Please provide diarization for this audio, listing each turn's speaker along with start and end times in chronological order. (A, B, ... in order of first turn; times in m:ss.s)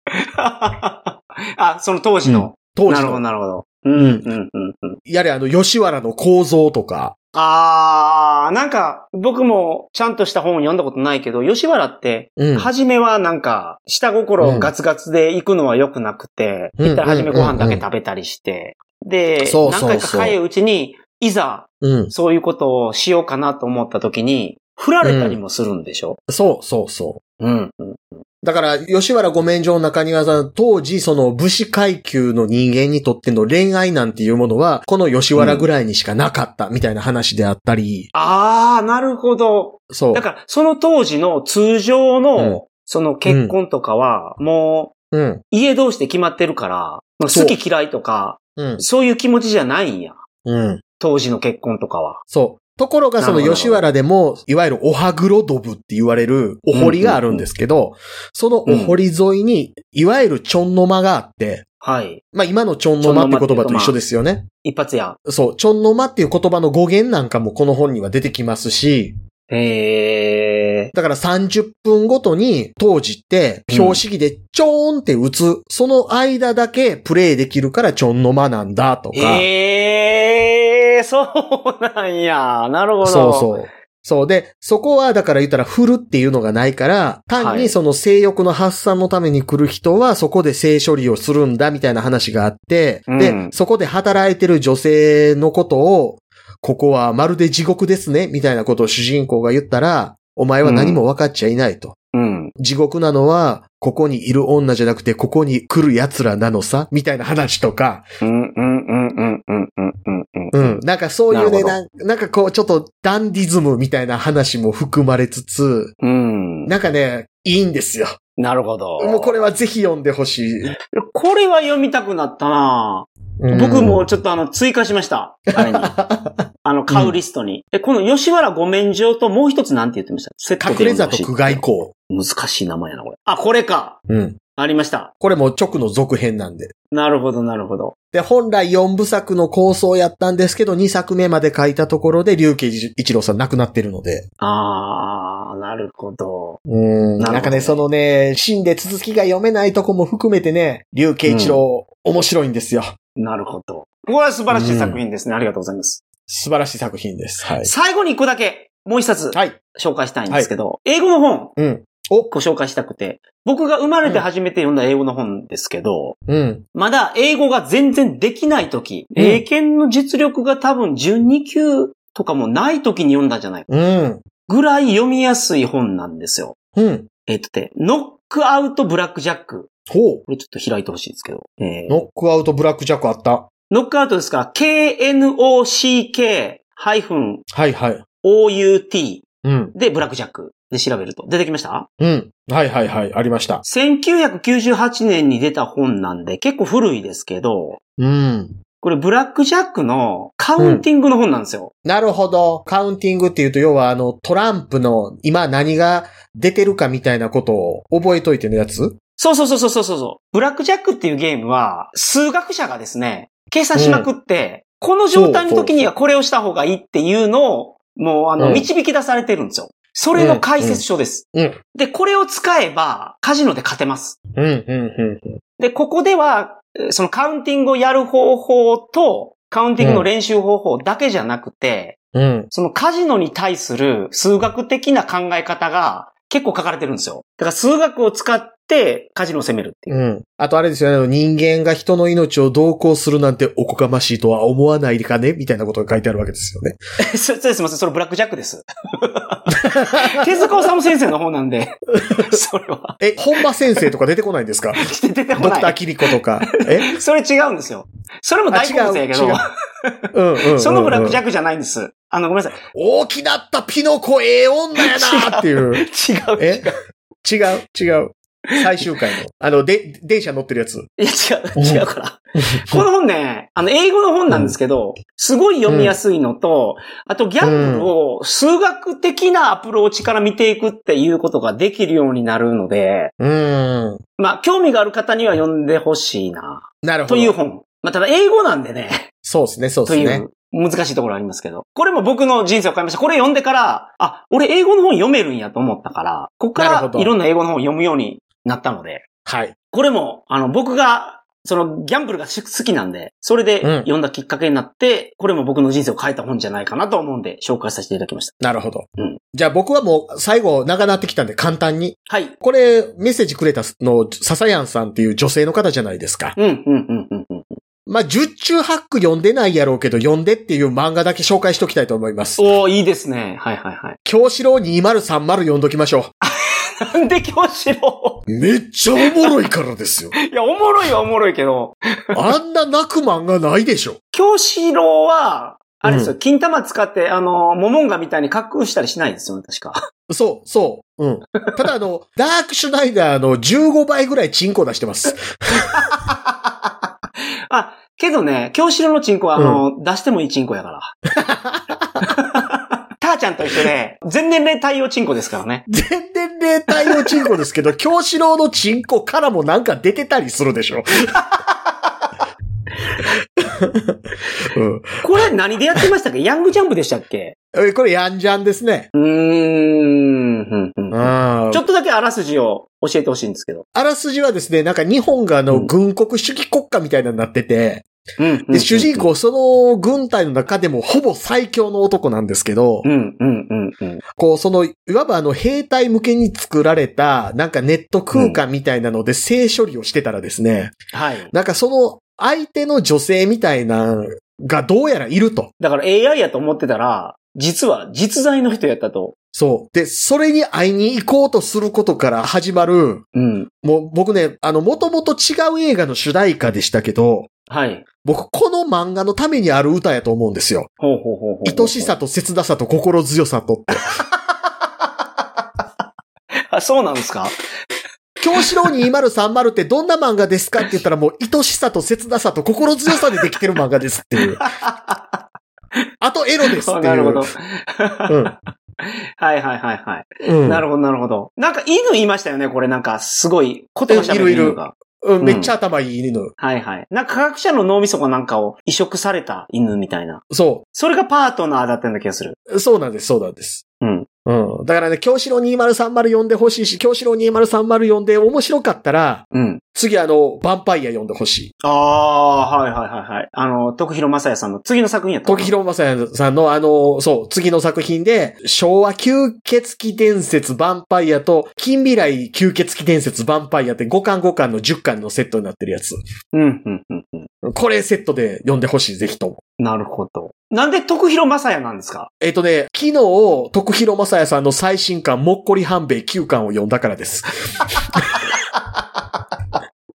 0:00.2-0:05.0 A
0:02.2-0:03.2 B
0:04.0-0:04.2 B
0:05.0-0:07.1 B
0:07.3-0:26.2 A
0:12.4-0:12.7 B
0:14.4-0:14.7 B
0:16.8-0:17.8 B
0:19.4-0:20.4 B
0:21.8-0:22.1 B
0:25.0-0:25.4 B
0:26.3-0:27.2 B
0:27.4-0:28.2 A
0:28.4-0:38.1 B
0:35.4-0:35.7 A
0:38.1-0:44.9 A
0:39.9-0:40.2 B
0:43.2-0:43.6 B
0:45.1-0:45.4 B
0:45.5-0:50.2 A
0:47.3-0:47.6 B
0:48.6-0:48.8 B
0:50.4-0:50.8 B
0:51.0-0:52.2 A
0:52.3-1:01.6 B
0:53.2-0:53.8 A
0:56.7-0:57.4 A
0:58.6-0:59.0 A
1:01.8-1:02.2 A
1:02.3-1:04.5 B
1:03.0-1:04.0 A
1:04.6-1:05.2 A
1:05.2-1:09.2 B
1:09.5-1:10.9 A
1:10.9-1:19.4 B
1:13.7-1:14.0 A
1:19.1-1:23.5 A
1:23.0-1:42.0 B
1:27.4-1:27.8 A
1:33.1-1:33.5 A
1:40.6-1:41.0 A
1:42.1-1:42.5 A
1:42.6-1:48.0 B
1:48.2-1:51.8 A
1:50.5-1:55.9 B
1:56.0-1:56.7 A
1:56.6-1:58.2 B
1:58.4-1:59.3 A
1:59.0-2:00.8 B
2:00.9-2:05.9 A
2:03.4-2:04.1 B
2:05.5-2:07.1 B
2:06.6-2:14.0 A
2:10.6-2:11.9 B
2:14.1-2:14.4 B
2:14.6-2:15.1 A
2:15.2-2:16.7 B
2:16.9-2:17.9 A
2:18.1-2:24.2 B
2:24.4-2:26.6 A
2:26.7-2:32.9 B
2:27.2-2:27.8 A
2:31.2-2:31.6 A
2:33.2-2:36.0 A
2:34.5-2:35.0 B
2:36.3-2:37.7 B
2:37.6-2:41.5 A
2:39.3-2:39.6 B
2:41.6-2:42.3 B
2:42.3-2:46.2 A
2:46.3-2:46.6 B
2:46.7-2:53.7 A
2:49.2-2:49.4 B
2:53.7-2:54.2 B
2:54.5-2:56.5 A
2:56.8-2:57.1 B
2:57.2-2:59.7 A
2:59.9-3:00.2 B
3:00.3-3:02.0 A
3:01.9-3:03.5 B
3:03.7-3:07.4 A
3:07.5-3:08.0 B
3:08.2-3:11.9 A
3:09.4-3:09.7 B
3:12.0-3:13.6 B
3:13.6-3:17.8 A
3:18.0-3:18.6 B
3:18.8-3:21.7 A
3:20.6-3:20.8 B
3:21.8-3:29.0 B
3:29.2-3:44.2 A
3:33.7-3:34.1 B
3:35.1-3:35.8 B
3:38.4-3:38.7 B
3:40.2-3:41.6 B
3:44.3-3:45.4 B
3:45.6-3:52.0 A
3:49.8-3:50.1 B
3:52.1-3:52.5 B
3:52.5-4:00.0 A
3:59.9-4:06.8 B
4:07.0-4:13.4 A
4:09.6-4:10.3 B
4:12.0-4:12.4 B
4:13.0-4:14.8 B
4:14.8-4:22.6 A
4:15.4-4:17.0 B
4:18.5-4:19.4 B
4:20.1-4:21.2 B
4:22.7-4:25.8 B
4:24.8-4:26.8 A
4:26.4-4:26.7 B
4:27.2-4:30.9 B
4:31.0-4:43.1 A
4:31.6-4:31.8 B
4:32.4-4:32.8 B
4:34.3-4:34.6 B
4:35.7-4:36.0 B
4:37.4-4:37.9 B
4:43.2-4:44.0 B
4:44.2-4:49.1 A
4:46.8-4:47.4 B
4:49.2-4:50.2 B
4:49.8-4:59.0 A
4:56.6-4:57.1 B
4:59.2-4:59.5 B
4:59.7-5:08.3 A
5:03.6-5:03.9 B
5:08.4-5:16.4 B
5:12.1-5:12.3 A
5:16.4-5:17.6 A
5:17.9-5:22.4 B
5:22.4-5:24.0 A
5:24.0-5:26.1 B
5:26.2-5:28.2 A
5:28.3-5:30.1 B
5:29.0-5:29.3 A
5:30.2-5:31.8 A
5:32.1-5:34.0 B
5:34.1-5:39.8 A
5:35.8-5:36.1 B
5:40.1-5:45.8 B
5:45.5-5:46.3 A
5:47.5-5:50.9 A
5:49.4-5:49.6 B
5:51.2-5:52.1 B
5:52.0-5:55.7 A
5:55.7-6:01.2 B
5:56.7-5:57.2 A
6:03.4-6:05.0 B
6:05.0-6:07.3 A
6:07.5-6:08.9 B
6:08.9-6:13.6 A
6:10.9-6:11.6 B
6:13.7-6:17.8 B
6:18.2-6:19.1 A
6:18.5-6:22.9 B
6:22.8-6:24.0 A
6:24.2-6:30.7 B
6:28.1-6:28.4 A
6:30.9-6:31.3 A
6:31.3-6:35.5 B
6:35.6-6:39.1 A
6:39.3-6:43.0 B
6:43.1-6:43.5 A
6:43.6-6:47.3 B
6:47.5-6:47.8 A
6:48.0-6:50.7 B
6:50.8-6:51.9 A
6:51.4-6:53.8 B
6:56.5-6:57.3 A
6:58.2-7:04.4 B
7:04.4-7:05.2 A
7:06.0-7:07.3 B
7:06.4-7:15.5 A
7:08.1-7:08.3 B
7:10.2-7:10.6 B
7:13.9-7:16.3 B
7:16.4-7:22.4 A
7:20.3-7:20.6 B
7:22.5-7:23.6 B
7:23.8-7:24.1 A
7:24.2-7:31.5 B
7:29.3-7:29.6 A
7:31.6-7:35.5 A
7:35.2-7:46.0 B
7:46.3-7:47.3 A
7:47.4-7:49.4 B
7:49.6-7:52.1 A
7:52.2-7:58.2 B
7:57.8-7:58.4 A